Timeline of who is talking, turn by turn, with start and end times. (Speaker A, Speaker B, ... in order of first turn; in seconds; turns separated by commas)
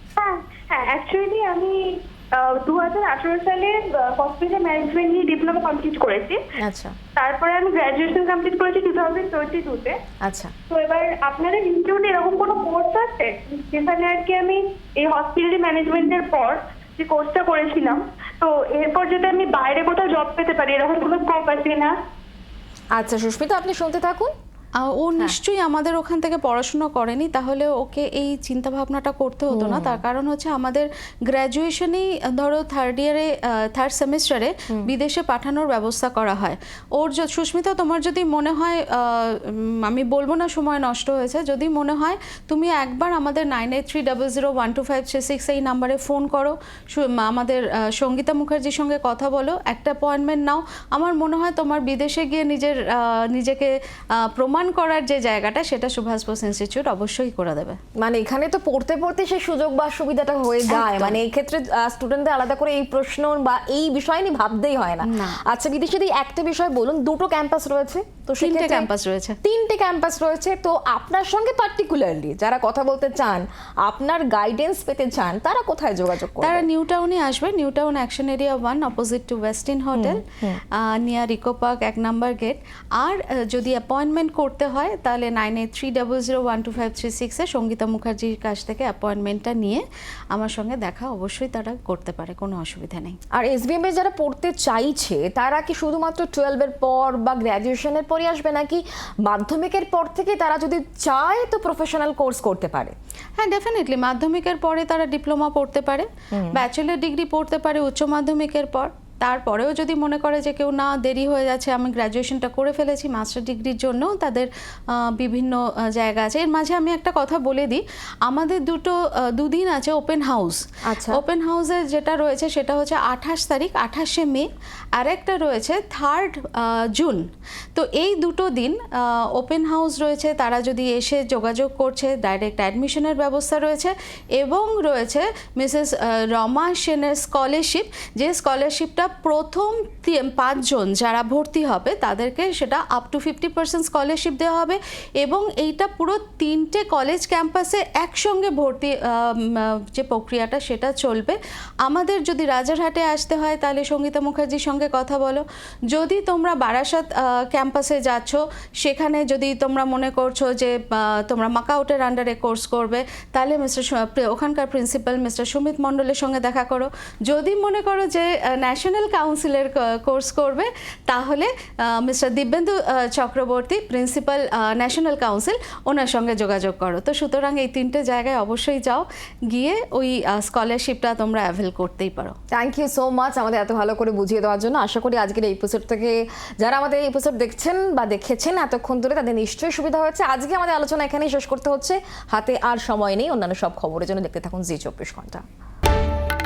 Speaker A: 0.2-6.4, Speaker B: 6.6-7.0, Speaker A: 7.1-10.0, Speaker B: 10.2-10.5, Speaker A: 10.7-22.0, Speaker B: 22.9-24.3, Speaker C: 24.8-57.8, Speaker B: 29.5-30.0, Speaker B: 58.0-68.9, Speaker C: 60.7-61.2, Speaker C: 65.0-65.4, Speaker C: 68.4-69.4, Speaker B: 69.4-76.6, Speaker C: 76.4-93.2, Speaker B: 79.9-80.6, Speaker B: 93.3-103.0, Speaker C: 103.4-182.3, Speaker B: 106.3-106.6, Speaker B: 120.9-121.2, Speaker B: 182.5-195.4